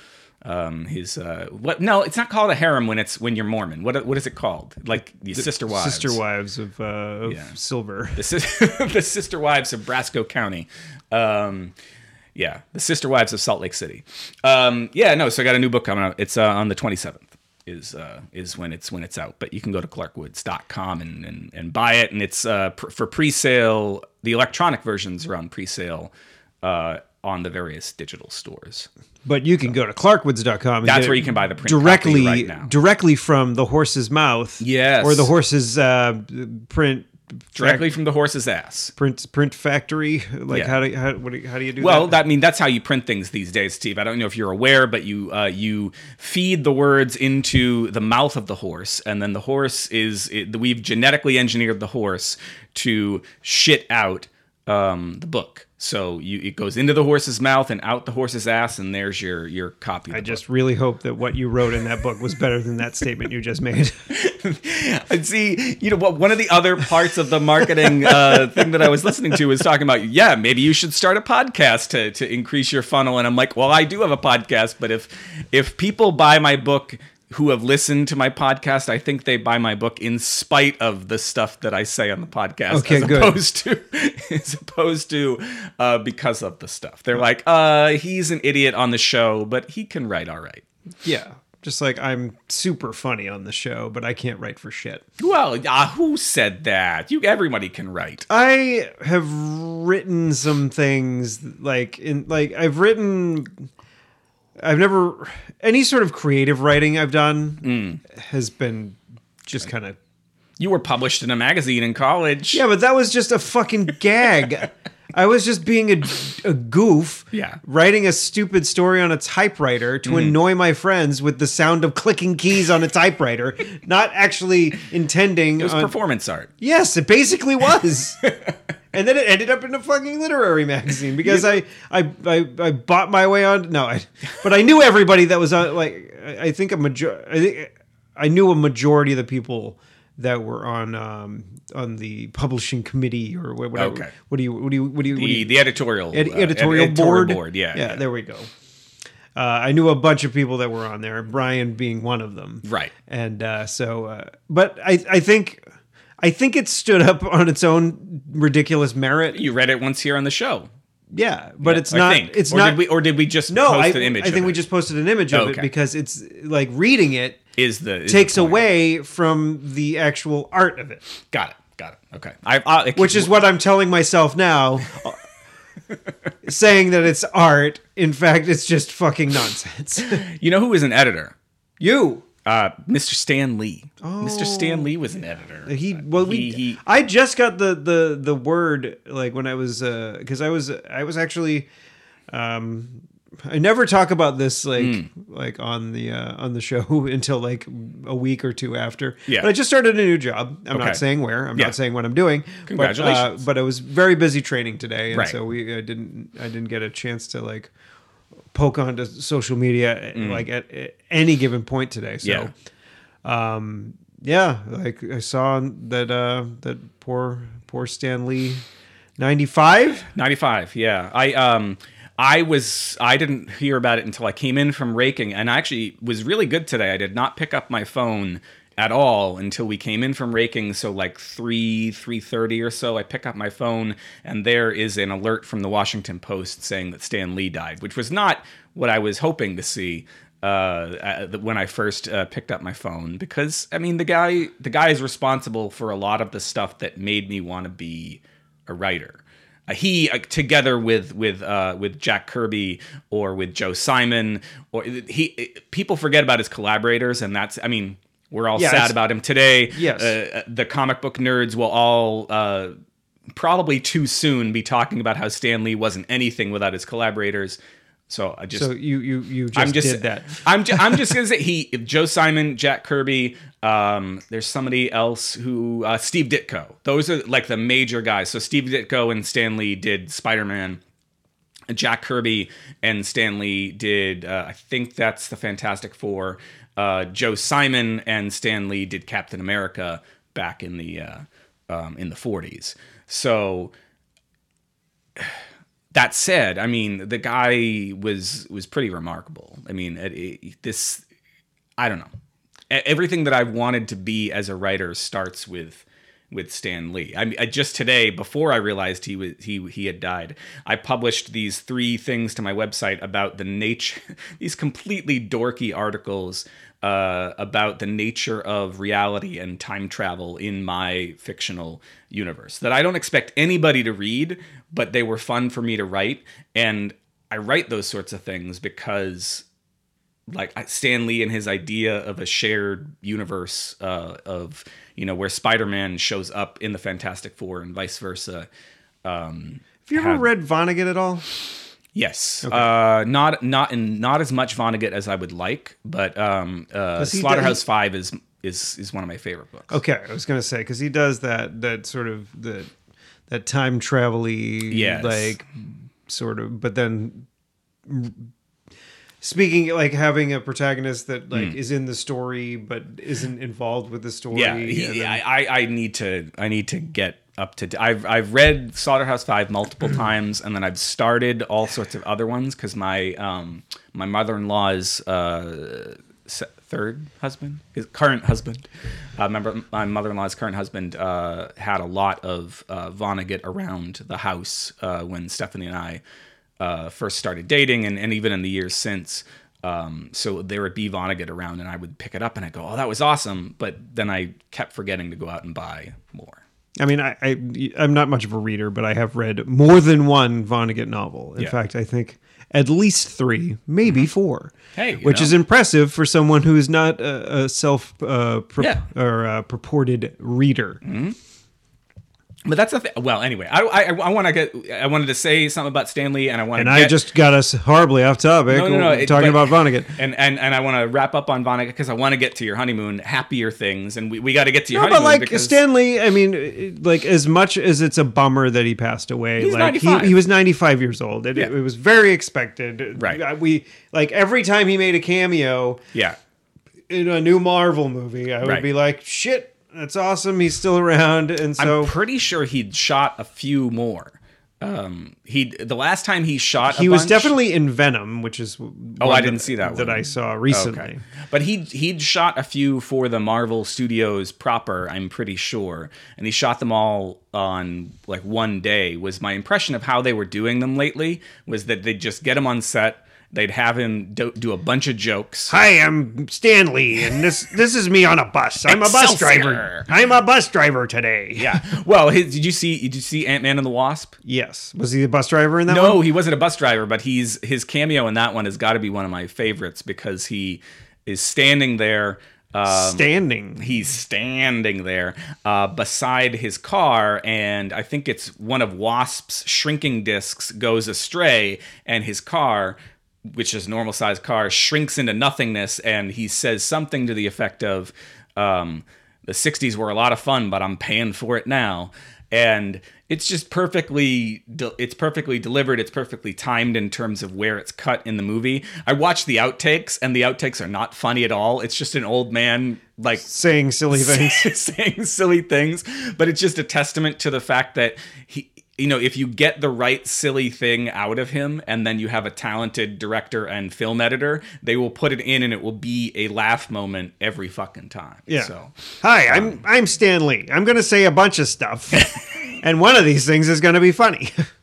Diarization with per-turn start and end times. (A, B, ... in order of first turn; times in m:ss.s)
0:00.4-0:06.2 A
0:05.3-0:08.2 B
0:07.3-0:07.5 A
0:08.1-0:11.7 A
0:12.3-0:26.1 A
0:26.6-0:28.9 A
0:29.2-0:37.9 B
0:30.8-0:32.7 A
0:34.6-0:35.3 A
0:37.5-0:38.9 A
0:39.0-0:42.2 B
0:41.8-1:00.4 A
1:00.1-1:04.1 B
1:04.1-1:30.6 A
1:07.8-1:09.1 B
1:22.7-1:23.4 B
1:31.0-1:35.0 B
1:35.2-1:38.2 A
1:38.3-1:43.6 B
1:44.6-1:50.0 B
1:47.6-1:48.0 A
1:50.6-1:52.6 A
1:52.5-2:05.9 B
1:57.3-1:57.6 A
2:00.0-2:00.4 A
2:05.6-2:06.5 A
2:06.6-2:08.2 B
2:08.2-2:08.5 A
2:08.9-2:25.6 B
2:23.7-2:24.1 A
2:25.1-2:28.0 A
2:26.1-2:28.5 B
2:29.3-2:35.6 B
2:32.6-2:32.9 A
2:36.2-2:39.4 B
2:39.3-2:40.7 A
2:41.1-2:42.8 B
2:41.6-2:44.6 A
2:43.5-2:47.4 B
2:45.3-2:45.7 A
2:47.6-2:48.6 A
2:48.1-2:51.0 B
2:51.3-2:53.3 A
2:53.0-2:55.2 B
2:56.4-3:00.2 B
3:00.1-3:01.3 A
3:01.8-3:02.2 B
3:02.4-3:06.8 A
3:04.0-3:04.9 B
3:05.6-3:11.7 B
3:12.3-3:27.7 B
3:14.8-3:15.1 A
3:20.7-3:21.0 A
3:22.7-3:23.4 A
3:25.1-3:25.4 A
3:28.5-3:32.5 B
3:30.1-3:30.4 A
3:32.2-3:32.5 A
3:33.2-3:38.6 B
3:39.2-3:40.1 B
3:40.1-4:22.7 A
4:18.6-4:19.0 B
4:19.7-4:20.2 B
4:23.3-4:27.6 A
4:28.1-4:28.7 A
4:28.5-4:31.1 B
4:29.5-4:40.8 A
4:41.7-4:53.7 A
4:55.9-5:01.0 A
5:01.8-5:02.1 A
5:02.7-5:29.4 A
5:30.3-5:38.5 A
5:39.0-5:40.3 A
5:39.8-5:41.2 B
5:41.9-5:49.8 A
5:47.0-5:47.6 B
5:49.7-5:52.7 B
5:53.3-5:57.3 B
5:54.7-5:55.4 A
5:57.8-5:58.3 B
5:59.2-6:05.2 B
6:04.3-6:26.0 A
6:26.6-6:36.4 A
6:36.8-6:50.8 B
6:44.8-6:45.3 A
6:50.8-6:51.2 A
6:52.4-6:57.0 A
6:56.6-7:00.0 B
6:58.5-7:05.6 A
7:04.7-7:15.8 B
7:09.4-7:10.2 A
7:13.0-7:13.2 A
7:16.9-7:21.9 B
7:21.6-7:27.3 A
7:26.6-7:31.0 B
7:29.0-7:45.5 A
7:45.5-7:51.6 B
7:48.6-7:49.9 A
7:51.4-7:54.1 A
7:54.2-7:56.0 B
7:55.7-8:12.8 A
8:02.7-8:03.7 B
8:13.3-8:33.3 A
8:33.2-8:34.5 B
8:33.9-8:49.6 A
8:48.3-8:54.5 B